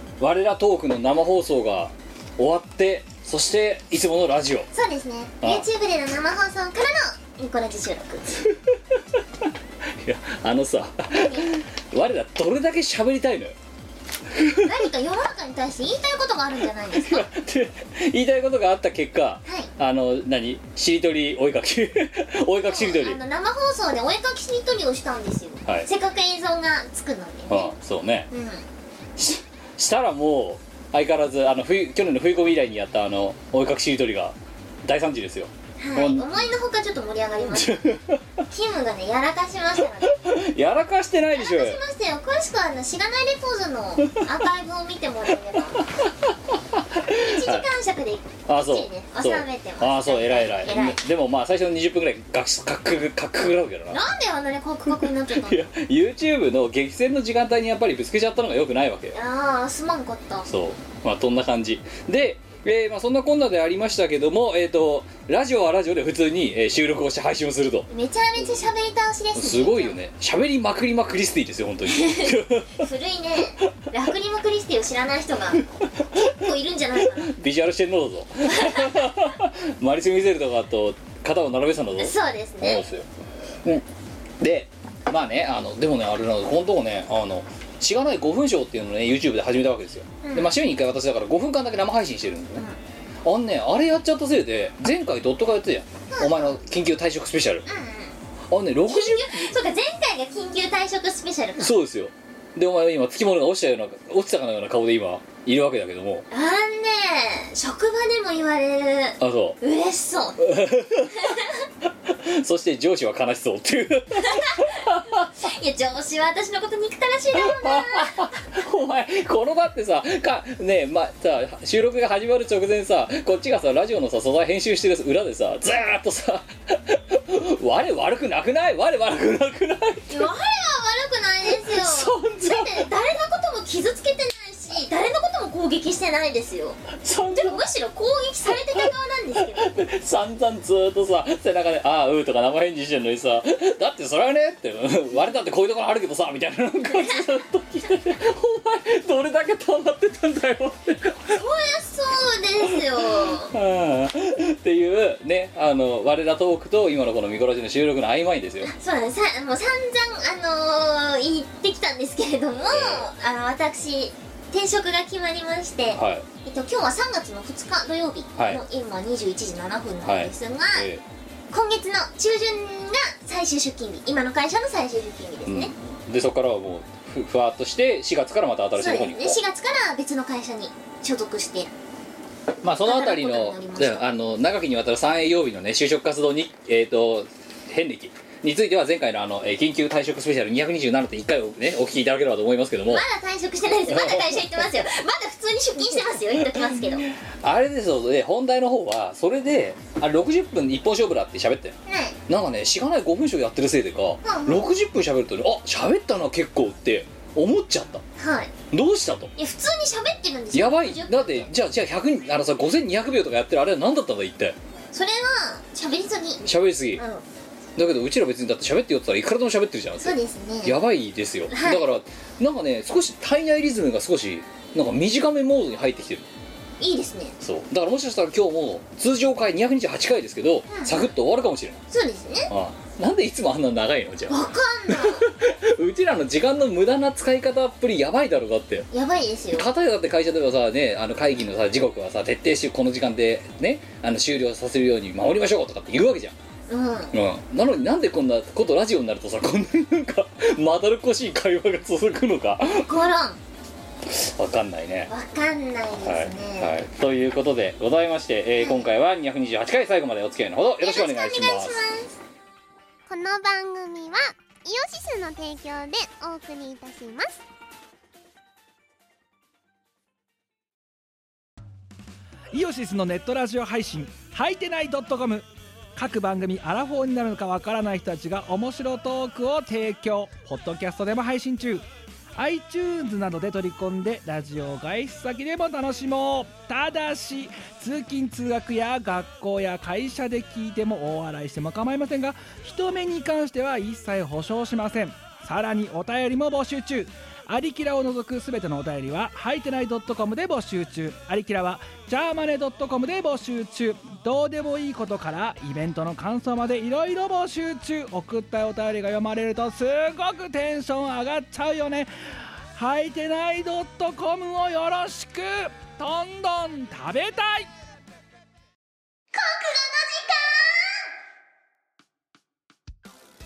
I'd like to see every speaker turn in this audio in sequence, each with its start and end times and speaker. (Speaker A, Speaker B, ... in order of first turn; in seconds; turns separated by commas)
Speaker A: 0.2-4.7, Speaker B: 4.7-8.3, Speaker A: 8.4-13.5, Speaker B: 11.1-11.5, Speaker A: 14.3-14.7, Speaker B: 14.5-17.3, Speaker A: 16.9-23.2, Speaker B: 22.6-27.7, Speaker A: 27.5-28.3, Speaker B: 28.3-28.6, Speaker A: 29.2-36.2, Speaker B: 35.8-37.9, Speaker A: 37.5-38.3, Speaker B: 38.5-40.2, Speaker A: 40.0-41.8, Speaker B: 41.4-45.8, Speaker A: 45.7-47.7, Speaker B: 47.1-51.0, Speaker A: 48.5-54.0, Speaker B: 53.9-55.6, Speaker A: 54.9-59.1, Speaker B: 59.1-60.5, Speaker A: 60.4-67.9, Speaker B: 67.9-69.9, Speaker A: 69.3-72.8, Speaker B: 71.9-77.3, Speaker A: 77.1-83.1, Speaker B: 78.5-79.1, Speaker B: 82.0-82.8, Speaker A: 84.4-92.6, Speaker B: 90.2-90.5, Speaker A: 93.2-97.7, Speaker B: 96.1-96.6, Speaker B: 97.7-98.1, Speaker A: 98.5-99.5, Speaker B: 98.9-101.7, Speaker A: 101.6-106.2, Speaker B: 106.3-110.5, Speaker A: 109.2-109.6, Speaker A: 110.4-111.3, Speaker B: 111.1-111.6, Speaker A: 111.8-115.4, Speaker B: 114.2-114.8, Speaker B: 115.4-118.3, Speaker A: 117.3-130.3, Speaker B: 130.1-139.7, Speaker A: 131.5-132.9, Speaker A: 136.9-137.6, Speaker A: 138.5-151.4, Speaker B: 146.9-147.3, Speaker B: 151.3-153.5, Speaker A: 152.7-158.7, Speaker B: 158.6-170.9, Speaker A: 162.7-163.1, Speaker A: 165.9-166.3, Speaker A: 168.4-168.6, Speaker A: 170.0-171.0, Speaker B: 171.5-175.7, Speaker A: 175.4-179.4, Speaker B: 178.8-181.7, Speaker A: 182.6-193.0, Speaker B: 182.8-184.1, Speaker B: 192.9-197.1, Speaker A: 193.9-194.8, Speaker A: 196.3-201.8, Speaker B: 201.8-202.2, Speaker A: 202.3-208.0, Speaker B: 204.2-204.6, Speaker B: 208.2-208.5, Speaker A: 208.7-209.3, Speaker B: 209.3-211.5, Speaker A: 210.5-214.6, Speaker B: 214.9-216.4, Speaker A: 216.4-217.0, Speaker B: 216.9-217.2, Speaker A: 217.8-226.3, Speaker B: 220.0-220.8, Speaker B: 221.5-221.8, Speaker B: 226.8-227.3, Speaker A: 227.4-231.8, Speaker B: 230.7-231.0, Speaker B: 231.9-232.5, Speaker A: 232.5-238.9, Speaker B: 234.3-235.3, Speaker B: 238.9-239.7, Speaker A: 239.5-246.3, Speaker B: 246.7-247.1, Speaker A: 247.1-252.9, Speaker B: 252.7-253.4, Speaker A: 254.1-255.1, Speaker B: 255.1-256.8, Speaker A: 256.0-261.8, Speaker B: 258.6-258.9, Speaker B: 260.8-262.2, Speaker B: 263.1-267.4, Speaker C: 272.5-281.8, Speaker C: 282.4-312.1, Speaker C: 312.7-317.7, Speaker B: 319.3-321.1